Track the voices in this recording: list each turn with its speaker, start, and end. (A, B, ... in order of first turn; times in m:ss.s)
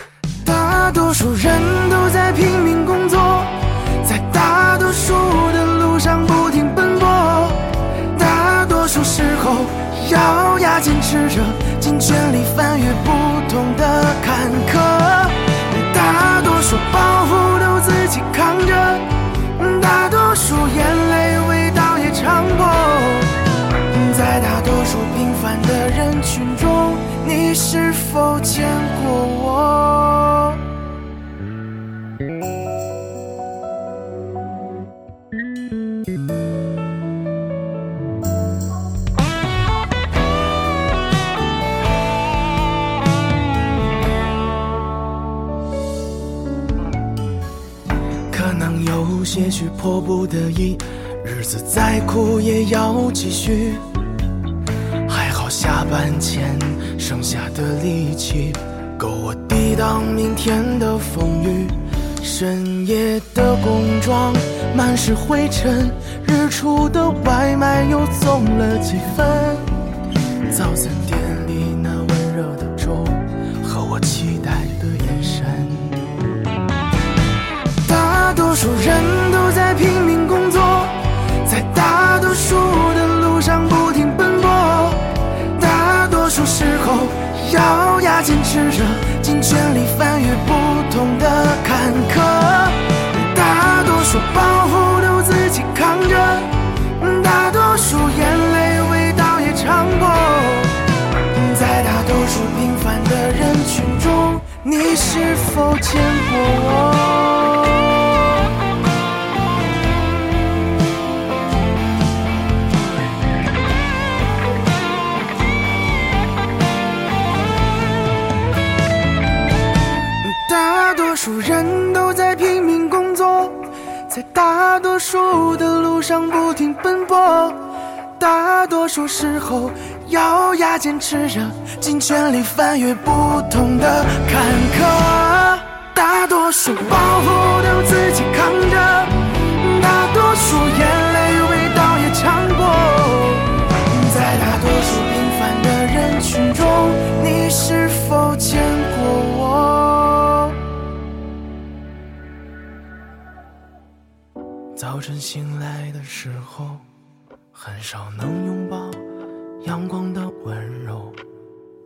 0:00.4-0:30.6 A
0:48.3-0:53.8 A
0:55.1-1:09.8 A
1:10.5-1:16.1 A
1:17.8-1:40.8 A
1:41.3-1:48.1 A
2:00.2-2:30.6 A
2:34.8-2:36.9 A
2:37.5-2:39.1 A
2:39.6-2:41.2 A